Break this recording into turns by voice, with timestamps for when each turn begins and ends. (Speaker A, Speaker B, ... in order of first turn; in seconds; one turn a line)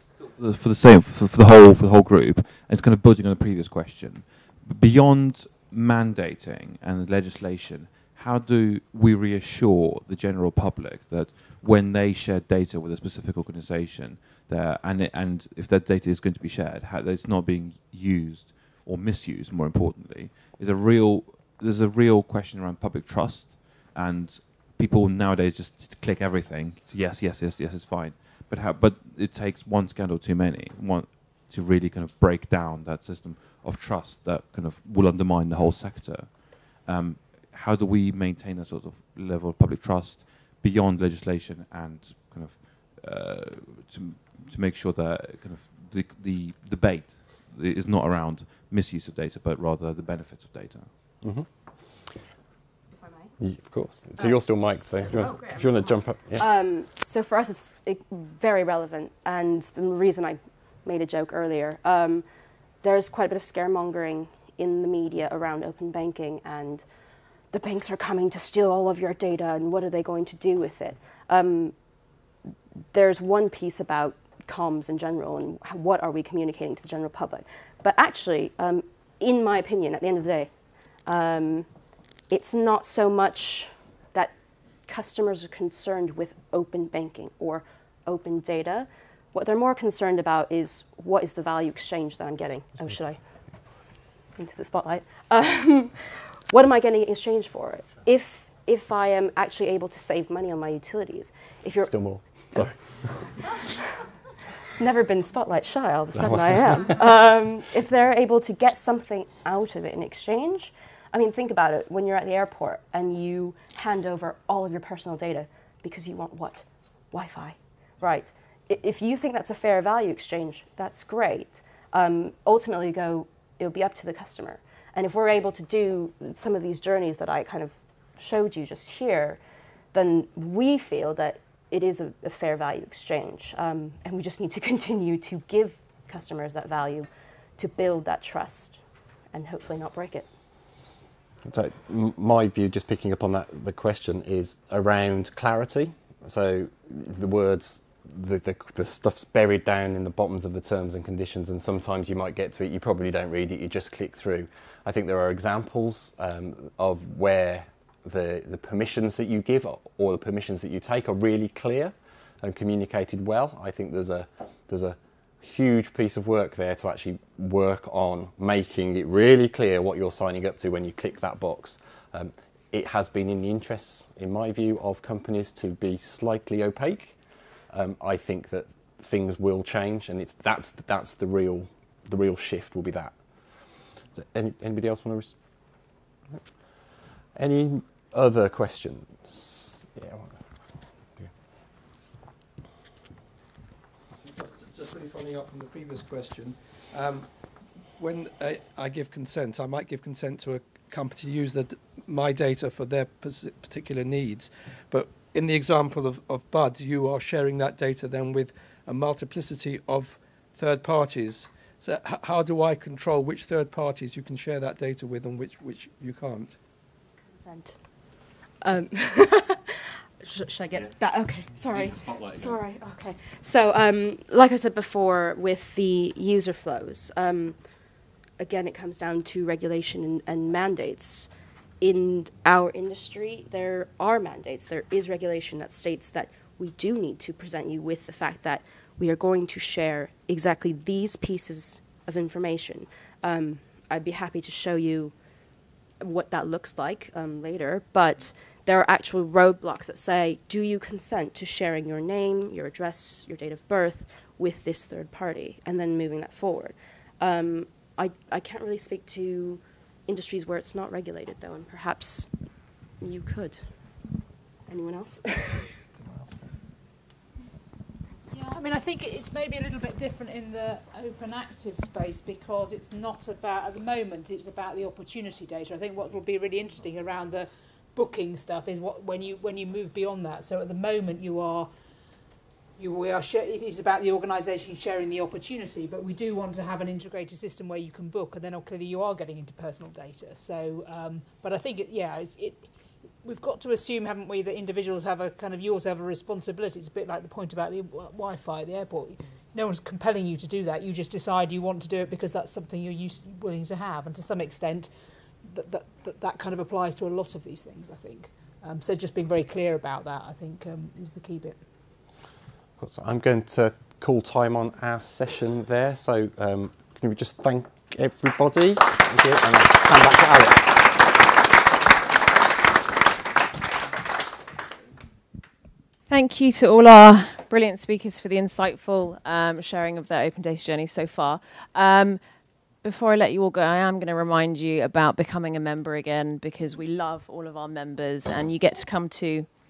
Speaker A: 0.3-50.9
Speaker B: 51.2-51.5
Speaker C: 53.0-53.3
Speaker B: 53.4-56.5
Speaker C: 55.2-62.2
Speaker C: 62.8-66.8
Speaker C: 67.5-71.7
Speaker C: 72.9-80.5
Speaker C: 81.0-81.7
Speaker C: 82.3-84.3
Speaker C: 84.8-93.2
Speaker C: 94.3-102.7
Speaker B: 101.8-103.2
Speaker C: 104.8-129.4
Speaker B: 106.2-106.8
Speaker C: 129.9-138.8
Speaker C: 139.3-140.3
Speaker B: 141.4-177.2
Speaker B: 177.7-183.2
Speaker B: 184.2-185.4
Speaker B: 187.3-190.4
Speaker D: 194.2-197.3
Speaker D: 198.0-216.6
Speaker C: 217.2-217.8
Speaker C: 218.6-227.6
Speaker B: 221.6-222.6
Speaker C: 228.4-231.3
Speaker C: 231.8-245.1
Speaker C: 246.0-262.3
Speaker C: 263.0-263.6
Speaker C: 264.7-265.8
Speaker E: 268.3-281.7
Speaker E: 282.8-292.7
Speaker E: 293.2-304.9
Speaker E: 305.4-311.6
Speaker B: 312.8-321.0
Speaker F: 326.1-332.2
Speaker F: 332.8-339.5